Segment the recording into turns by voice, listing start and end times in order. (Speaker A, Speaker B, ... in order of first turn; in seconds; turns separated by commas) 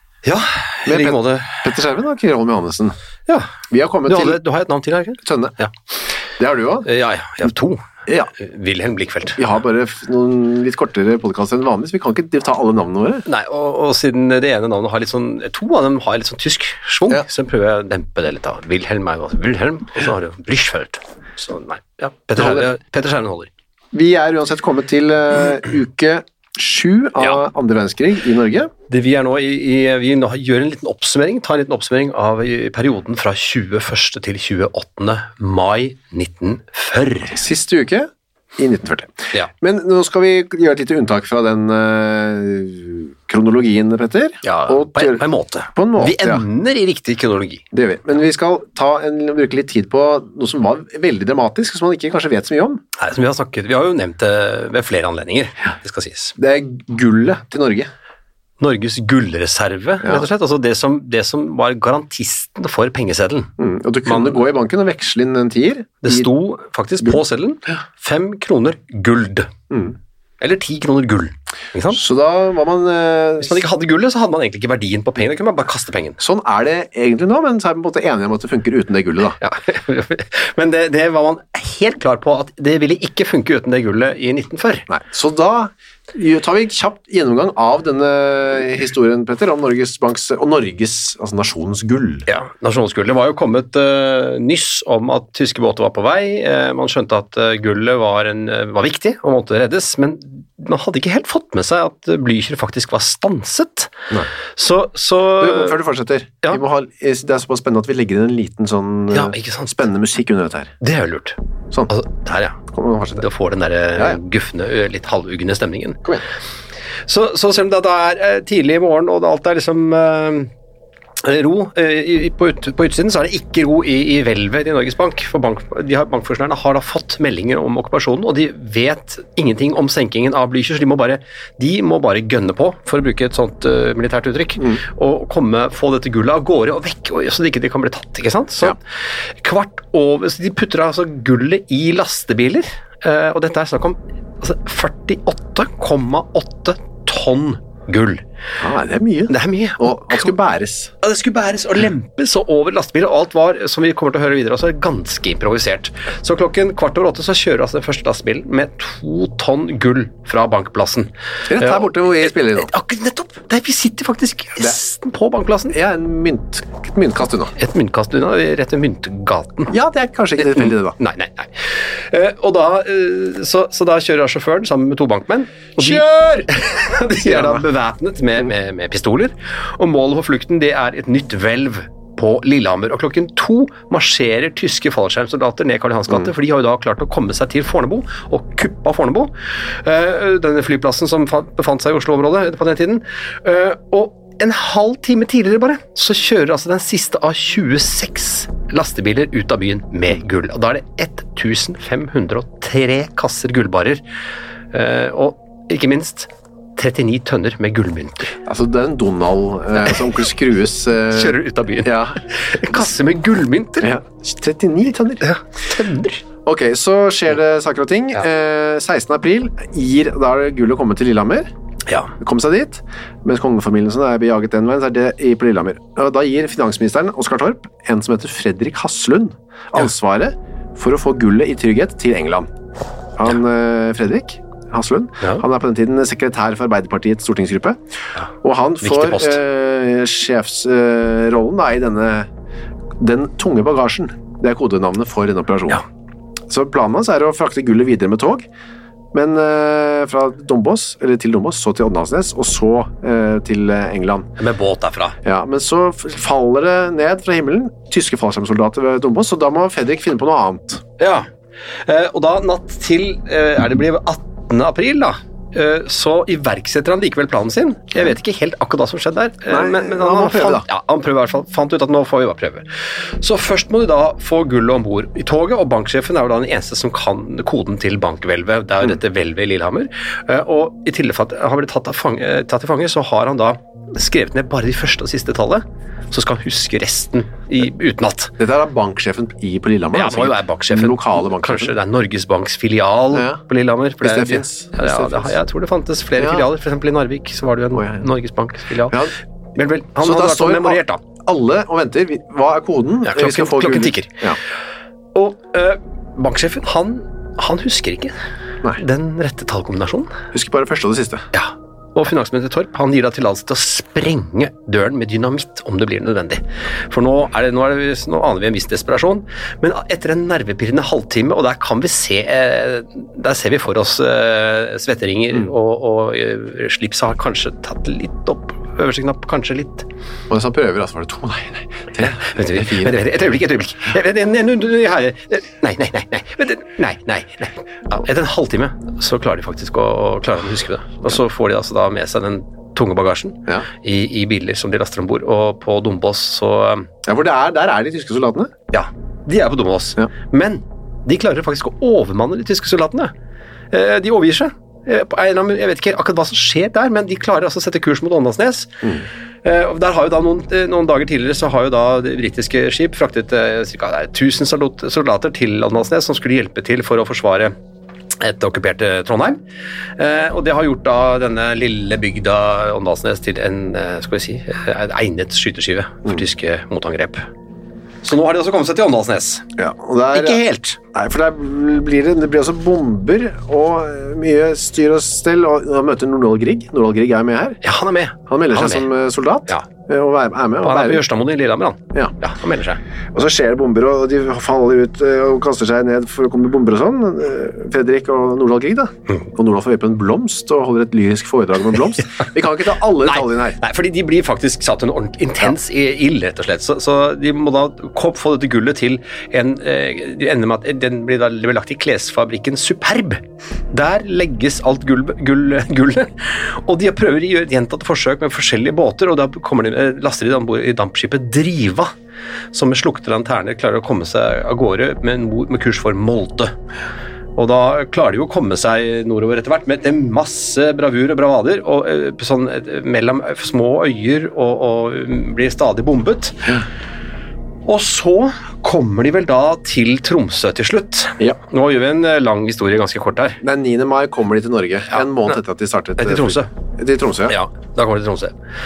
Speaker A: 0.2-1.7, Speaker B: 0.9-3.0, Speaker B: 3.7-4.4, Speaker A: 4.1-5.7, Speaker B: 5.2-5.5, Speaker B: 6.4-6.9, Speaker A: 6.9-9.4, Speaker B: 8.1-8.3, Speaker B: 9.4-13.2, Speaker A: 13.3-23.5, Speaker B: 22.4-22.7, Speaker B: 23.9-28.7, Speaker A: 28.9-37.4, Speaker B: 37.3-46.5, Speaker A: 44.4-47.6, Speaker B: 47.7-52.8, Speaker A: 53.0-56.4, Speaker B: 56.4-57.9, Speaker A: 58.6-63.5, Speaker B: 63.6-66.3, Speaker A: 64.1-64.4, Speaker A: 66.0-69.5, Speaker B: 69.7-70.0, Speaker A: 70.4-72.0, Speaker B: 71.9-73.6, Speaker A: 73.4-76.2, Speaker B: 76.2-79.4, Speaker A: 79.4-84.9, Speaker B: 84.9-92.3, Speaker A: 92.3-104.0, Speaker A: 104.5-105.8, Speaker B: 105.4-110.7, Speaker A: 109.1-109.8, Speaker A: 110.8-112.6, Speaker B: 112.7-113.3, Speaker A: 113.2-116.0, Speaker A: 117.1-120.5, Speaker A: 121.2-148.2, Speaker B: 148.6-150.9, Speaker A: 149.3-150.3, Speaker A: 151.0-165.8, Speaker B: 161.5-162.7, Speaker B: 165.7-167.6, Speaker A: 167.6-169.7, Speaker B: 169.7-171.0, Speaker A: 170.4-204.0, Speaker B: 175.8-176.2, Speaker B: 177.2-177.6, Speaker A: 204.7-208.4, Speaker B: 208.4-212.2, Speaker A: 211.1-213.9, Speaker B: 213.8-215.2, Speaker A: 215.2-216.2, Speaker B: 216.4-221.5, Speaker A: 221.9-222.1, Speaker B: 222.2-232.5, Speaker B: 233.2-237.8, Speaker B: 238.4-242.3, Speaker A: 238.8-239.4, Speaker B: 243.0-245.8, Speaker B: 246.5-248.5, Speaker B: 249.1-254.3, Speaker A: 254.4-255.2, Speaker B: 255.2-260.8, Speaker A: 261.0-261.3, Speaker A: 261.8-272.7, Speaker B: 269.5-270.7, Speaker A: 273.2-288.4, Speaker B: 288.4-291.8, Speaker A: 289.9-301.0, Speaker B: 293.1-293.4, Speaker B: 294.0-295.4, Speaker B: 296.2-296.5, Speaker B: 297.8-298.1, Speaker B: 298.9-299.1, Speaker B: 300.0-304.4, Speaker A: 303.0-304.2, Speaker A: 305.1-308.1, Speaker A: 308.8-310.1, Speaker B: 310.3-311.3, Speaker A: 311.3-329.9, Speaker B: 330.3-333.0, Speaker A: 332.1-346.9, Speaker B: 347.0-348.5, Speaker A: 348.7-353.1, Speaker A: 353.7-367.6, Speaker A: 368.2-369.4, Speaker A: 370.0-377.2, Speaker A: 378.0-379.5, Speaker B: 379.6-387.6, Speaker A: 380.1-380.8, Speaker A: 387.6-388.9, Speaker B: 388.3-391.1, Speaker A: 390.6-392.8, Speaker B: 393.1-403.6, Speaker A: 403.0-421.9, Speaker A: 422.5-426.5, Speaker A: 427.4-436.5, Speaker A: 437.7-443.4, Speaker B: 443.4-447.4, Speaker A: 444.9-445.3, Speaker A: 446.0-446.5, Speaker A: 447.3-448.4